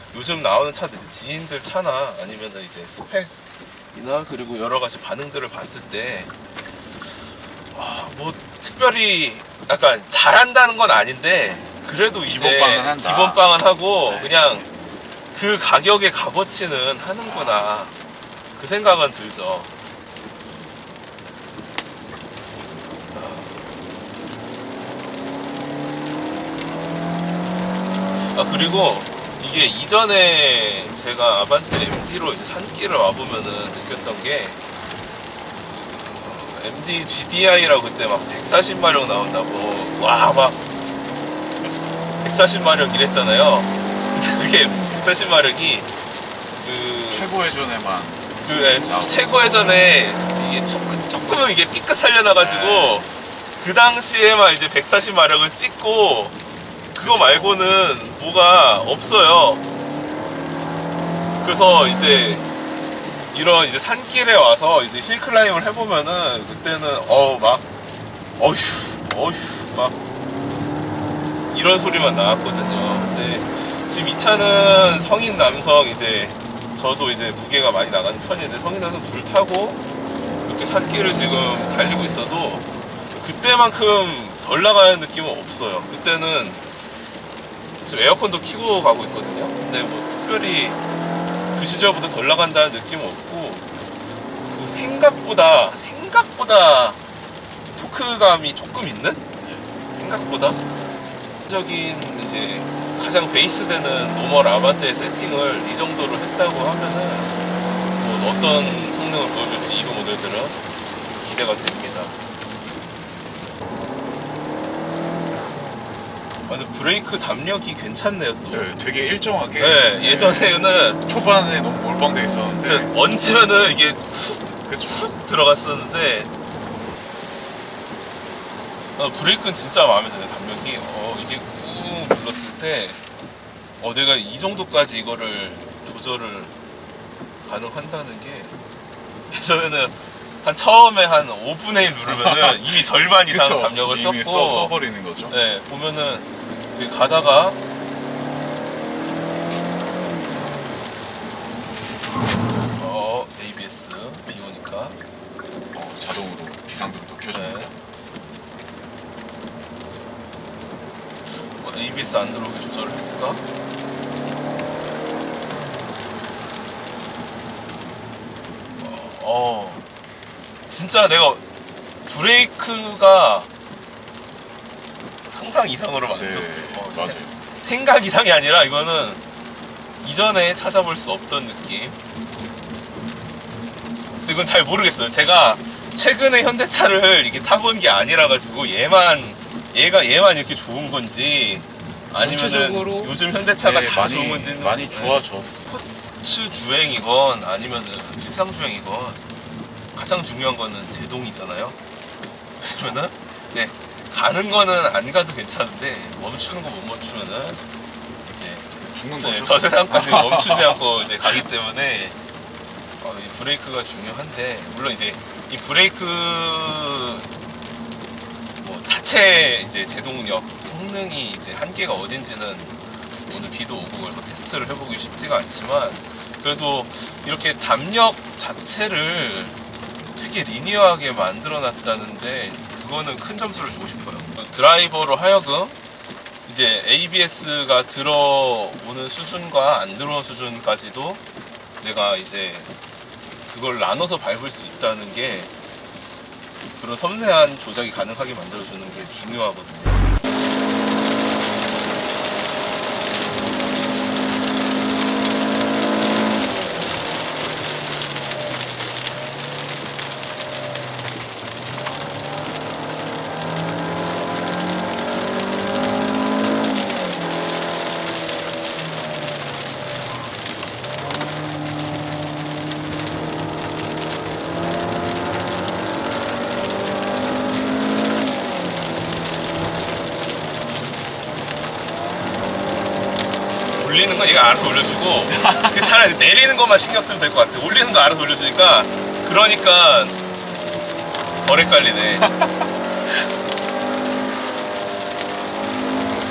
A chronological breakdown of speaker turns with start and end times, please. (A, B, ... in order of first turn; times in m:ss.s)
0:00.1-0:03.3 A
0:03.9-0:06.3 A
0:07.7-0:14.6 A
0:11.5-0:13.5 B
0:14.0-0:14.7 B
0:15.3-0:17.9 A
0:17.2-0:17.6 B
0:18.5-0:19.7 A
0:23.1-0:23.6 A
0:28.1-0:34.6 A
0:35.5-0:40.6 A
0:42.2-0:45.9 A
0:46.6-0:47.3 A
0:47.1-0:49.4 B
0:48.4-0:56.4 A
0:52.4-0:53.1 B
0:56.9-0:59.6 A
0:57.0-0:57.7 B
1:01.4-1:02.4 A
1:03.3-1:07.6 A
1:08.4-1:10.0 A
1:11.5-1:19.8 A
1:20.4-1:26.6 A
1:27.8-1:30.8 A
1:31.5-1:33.8 A
1:34.5-1:37.0 A
1:37.7-1:39.2 A
1:39.4-1:39.7 B
1:39.9-1:40.6 A
1:41.4-1:47.4 A
1:48.0-1:50.6 A
1:51.2-1:52.2 A
1:56.4-1:58.7 A
1:58.5-2:02.9 B
1:59.6-2:01.0 A
2:02.6-2:06.3 A
2:04.6-2:05.1 B
2:09.0-2:13.0 A
2:13.8-2:16.5 A
2:17.4-2:18.6 A
2:19.3-2:24.7 A
2:22.0-2:25.3 B
2:25.3-2:27.6 A
2:32.7-2:35.0 A
2:35.7-2:37.7 B
2:37.3-2:37.7 A
2:41.3-2:43.4 A
2:48.8-2:49.8 A
2:50.7-2:51.4 A
2:52.0-2:53.5 A
2:55.3-2:59.2 A
2:56.1-2:57.4 B
3:00.0-3:02.0 A
3:04.2-3:19.2 A
3:12.2-3:15.6 B
3:19.9-3:21.8 A
3:22.6-3:27.6 A
3:28.2-3:32.2 A
3:28.9-3:31.4 B
3:33.0-3:37.3 A
3:38.6-3:49.6 A
3:50.2-3:55.8 A
3:56.4-4:01.2 A
4:01.8-4:02.7 A
4:03.4-4:05.5 A
4:06.7-4:10.0 A
4:43.7-4:50.2 A
4:45.5-4:45.9 B
4:51.4-4:52.3 A
4:52.2-4:52.6 B